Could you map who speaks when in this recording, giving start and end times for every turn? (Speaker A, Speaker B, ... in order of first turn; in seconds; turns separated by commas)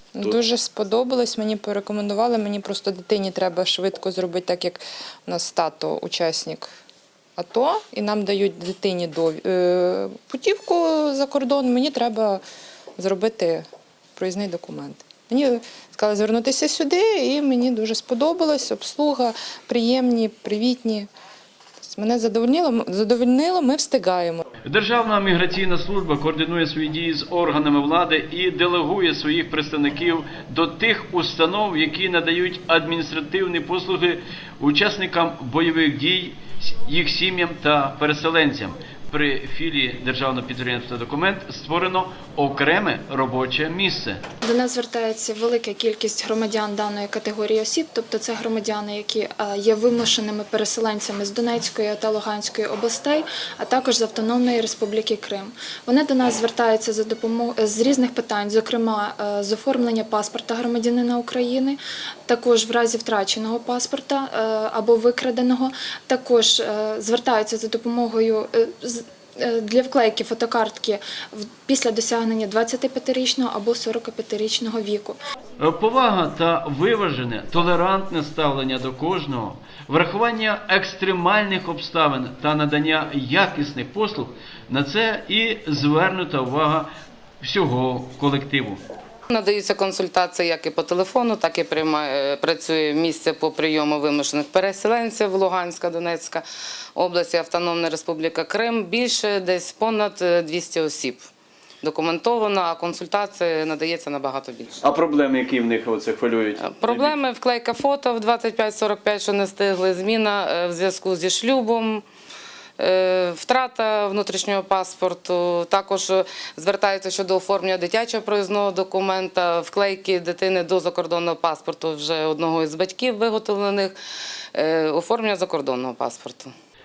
Speaker A: 0.1-6.7, Speaker A: 7.4-12.4, Speaker A: 13.0-13.6, Speaker A: 14.2-21.1, Speaker A: 21.8-24.4, Speaker B: 24.6-44.2, Speaker C: 44.4-75.2, Speaker B: 75.6-86.9, Speaker B: 87.4-88.8, Speaker D: 89.3-96.4, Speaker D: 97.0-101.2, Speaker D: 101.8-104.8, Speaker B: 104.8-107.2, Speaker D: 106.6-112.0, Speaker D: 112.8-124.0, Speaker D: 124.5-126.5